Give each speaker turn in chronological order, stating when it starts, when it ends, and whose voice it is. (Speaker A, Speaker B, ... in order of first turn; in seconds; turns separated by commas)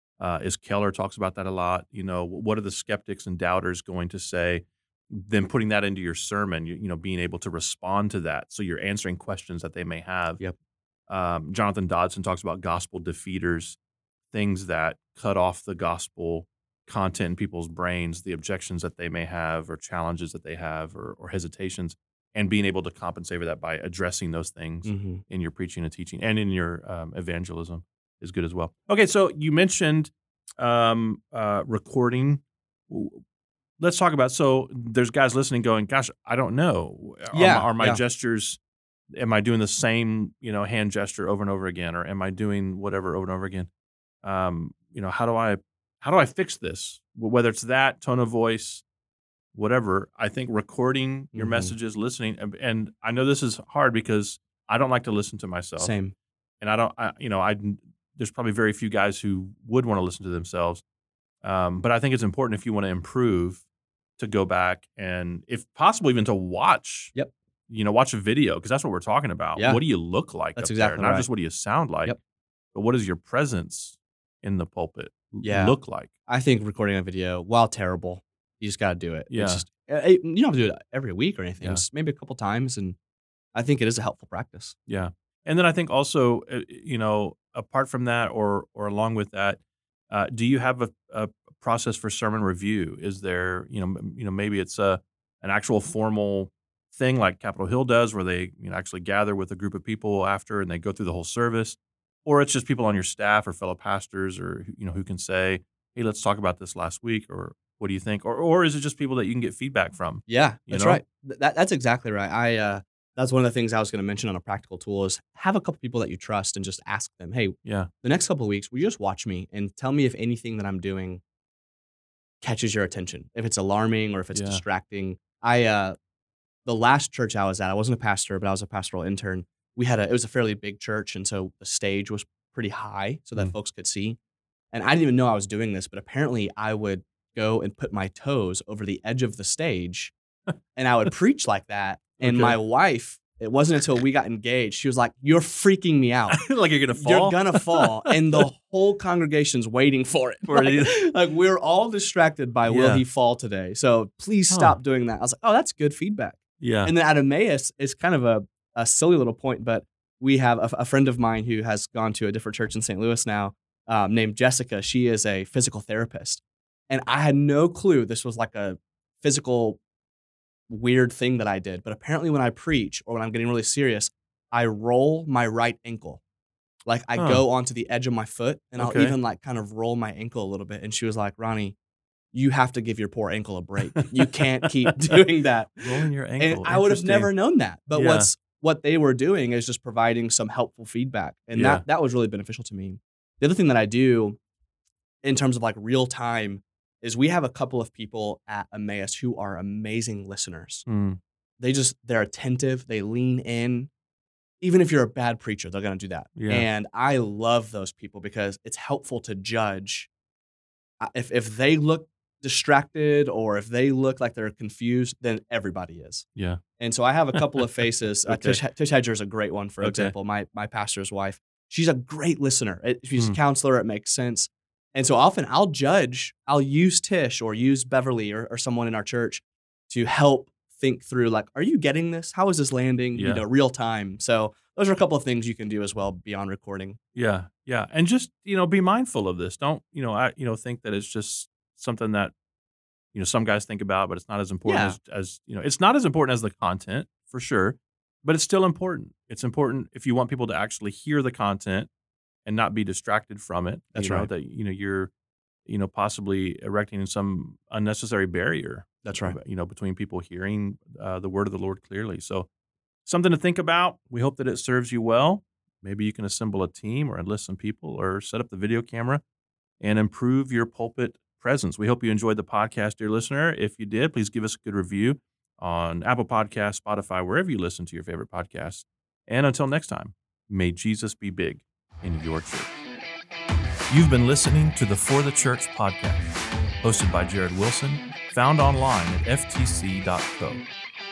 Speaker A: 0.2-10.4, Speaker A: 11.1-13.8, Speaker A: 14.3-33.2, Speaker B: 24.8-25.2, Speaker A: 33.8-38.6, Speaker B: 37.3-38.0, Speaker A: 39.1-43.7, Speaker A: 44.2-48.8, Speaker A: 49.5-55.9, Speaker B: 51.3-51.7, Speaker B: 55.8-56.1, Speaker A: 56.6-60.8, Speaker A: 61.4-63.6, Speaker A: 64.2-67.1, Speaker A: 67.7-72.2, Speaker B: 69.5-69.8, Speaker B: 70.5-71.3, Speaker A: 72.7-76.1, Speaker B: 75.4-75.8, Speaker B: 76.3-83.0, Speaker A: 79.3-79.6, Speaker B: 83.5-84.8, Speaker A: 84.9-111.0, Speaker B: 110.3-121.2, Speaker A: 117.6-117.9, Speaker B: 122.4-126.0, Speaker A: 124.3-124.6, Speaker B: 126.6-134.2, Speaker B: 134.7-140.1, Speaker B: 140.8-169.8, Speaker A: 142.2-142.6, Speaker A: 146.3-148.4, Speaker A: 150.5-151.0, Speaker A: 152.7-153.0, Speaker A: 154.5-154.8, Speaker A: 156.6-156.9, Speaker B: 170.7-176.2, Speaker B: 176.8-181.8, Speaker A: 177.2-177.4, Speaker A: 178.8-179.2, Speaker B: 182.3-185.8, Speaker A: 183.9-185.2, Speaker A: 185.8-187.3, Speaker B: 186.4-194.4, Speaker A: 187.9-188.3, Speaker A: 191.5-191.8, Speaker B: 195.2-200.8, Speaker A: 200.9-201.2, Speaker B: 201.6-203.9, Speaker B: 204.6-210.1, Speaker A: 206.3-206.7, Speaker B: 211.0-216.3, Speaker A: 216.3-216.6, Speaker B: 216.8-237.0, Speaker A: 217.3-217.6, Speaker A: 218.2-218.6, Speaker A: 219.8-220.1, Speaker A: 233.1-233.4, Speaker A: 237.1-242.3, Speaker A: 243.1-251.9, Speaker B: 244.7-245.0, Speaker A: 252.4-255.1, Speaker B: 253.9-254.3, Speaker A: 255.7-262.5, Speaker B: 259.0-259.4, Speaker A: 263.0-269.2, Speaker A: 269.8-282.7, Speaker A: 283.9-286.3, Speaker A: 286.8-290.6